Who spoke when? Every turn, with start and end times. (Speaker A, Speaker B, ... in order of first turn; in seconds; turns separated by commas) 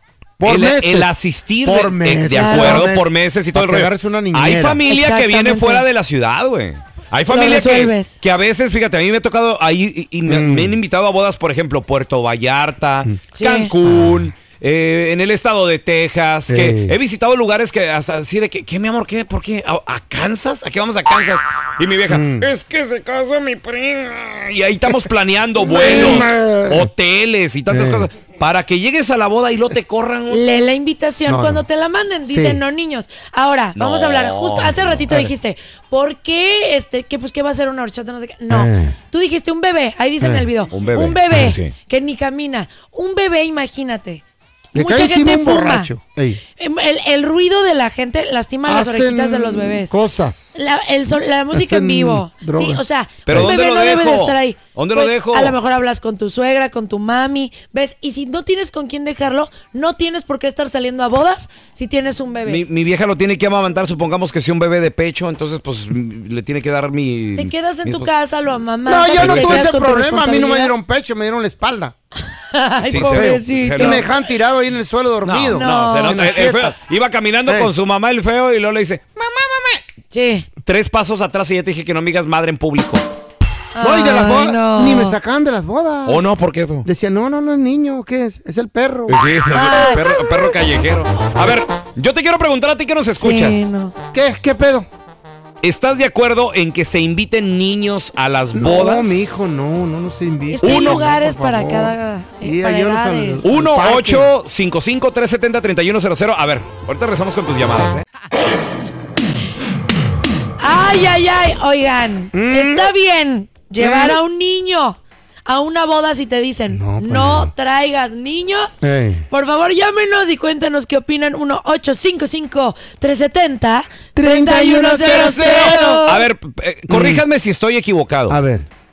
Speaker A: 0.4-4.8, Speaker B: 0.4-30.4, Speaker C: 2.3-2.9, Speaker C: 4.9-5.8, Speaker C: 7.3-8.2, Speaker A: 10.2-10.8, Speaker C: 13.4-13.7, Speaker A: 13.9-14.3, Speaker A: 16.5-16.9, Speaker A: 22.1-22.5, Speaker A: 25.6-26.9, Speaker C: 25.9-26.3, Speaker A: 27.7-28.1, Speaker C: 30.3-44.2, Speaker A: 31.3-31.6, Speaker A: 32.3-32.6, Speaker B: 33.8-35.0, Speaker A: 38.5-39.0, Speaker A: 40.2-40.5, Speaker B: 40.7-41.7, Speaker A: 44.7-46.4, Speaker C: 44.7-45.9, Speaker C: 46.6-49.9, Speaker A: 48.7-50.5, Speaker C: 50.5-62.6, Speaker A: 51.5-53.5, Speaker B: 53.3-55.5, Speaker B: 62.5-68.1, Speaker C: 67.4-70.7, Speaker A: 68.8-71.9, Speaker B: 69.1-69.7, Speaker C: 72.5-74.0, Speaker B: 72.8-74.1, Speaker A: 73.0-76.7, Speaker B: 75.2-79.8, Speaker C: 75.5-76.3, Speaker A: 77.5-77.7, Speaker C: 80.1-80.5, Speaker B: 80.7-83.0, Speaker C: 83.8-85.2, Speaker A: 83.8-86.2, Speaker B: 86.0-86.9, Speaker A: 86.8-90.5, Speaker B: 89.1-93.7, Speaker C: 89.5-90.0, Speaker C: 93.2-93.9, Speaker A: 94.1-94.9, Speaker B: 95.6-99.5, Speaker A: 98.5-104.3, Speaker C: 100.5-103.5, Speaker B: 100.6-101.0, Speaker B: 103.4-108.0, Speaker C: 110.6-118.8, Speaker A: 112.3-112.9, Speaker A: 113.8-114.2, Speaker A: 116.7-117.5, Speaker A: 118.8-119.3, Speaker C: 119.3-126.2, Speaker A: 124.1-126.1, Speaker B: 125.0-128.4, Speaker A: 126.9-127.2, Speaker A: 128.3-128.7